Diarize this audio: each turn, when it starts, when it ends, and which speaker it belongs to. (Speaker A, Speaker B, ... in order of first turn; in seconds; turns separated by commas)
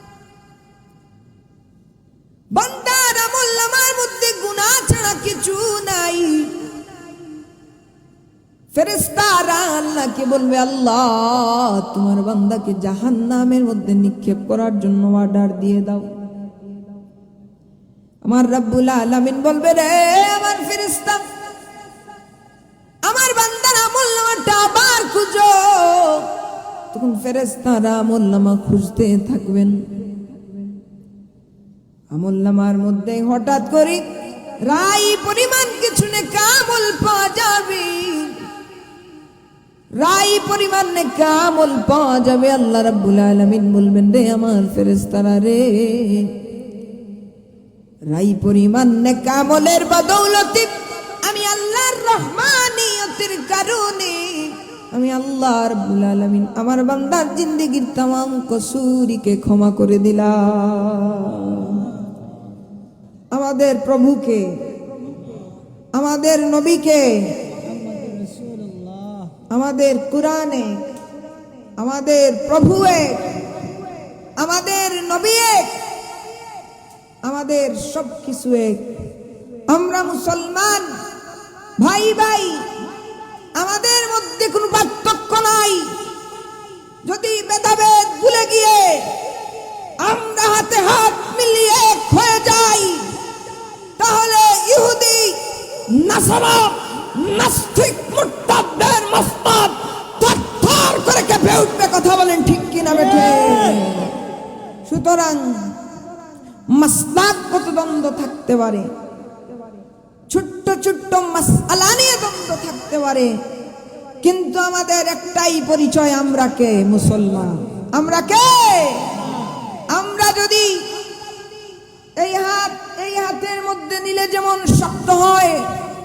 Speaker A: 2.5-6.6, Speaker A: 8.7-16.1, Speaker A: 18.2-21.2, Speaker A: 23.0-26.3, Speaker A: 26.9-29.8, Speaker A: 32.1-34.0, Speaker A: 34.6-38.5, Speaker A: 40.0-46.4, Speaker A: 48.1-61.9, Speaker A: 63.3-64.6, Speaker A: 65.9-67.5, Speaker A: 69.5-70.8, Speaker A: 71.8-73.4, Speaker A: 74.4-75.8, Speaker A: 77.2-78.9, Speaker A: 79.7-81.0, Speaker A: 81.8-82.7, Speaker A: 83.5-86.0, Speaker A: 87.0-89.1, Speaker A: 90.0-93.1, Speaker A: 94.0-104.2, Speaker A: 104.8-105.8, Speaker A: 106.7-108.9, Speaker A: 110.3-113.4, Speaker A: 114.2-119.3, Speaker A: 119.9-120.9, Speaker A: 122.2-125.7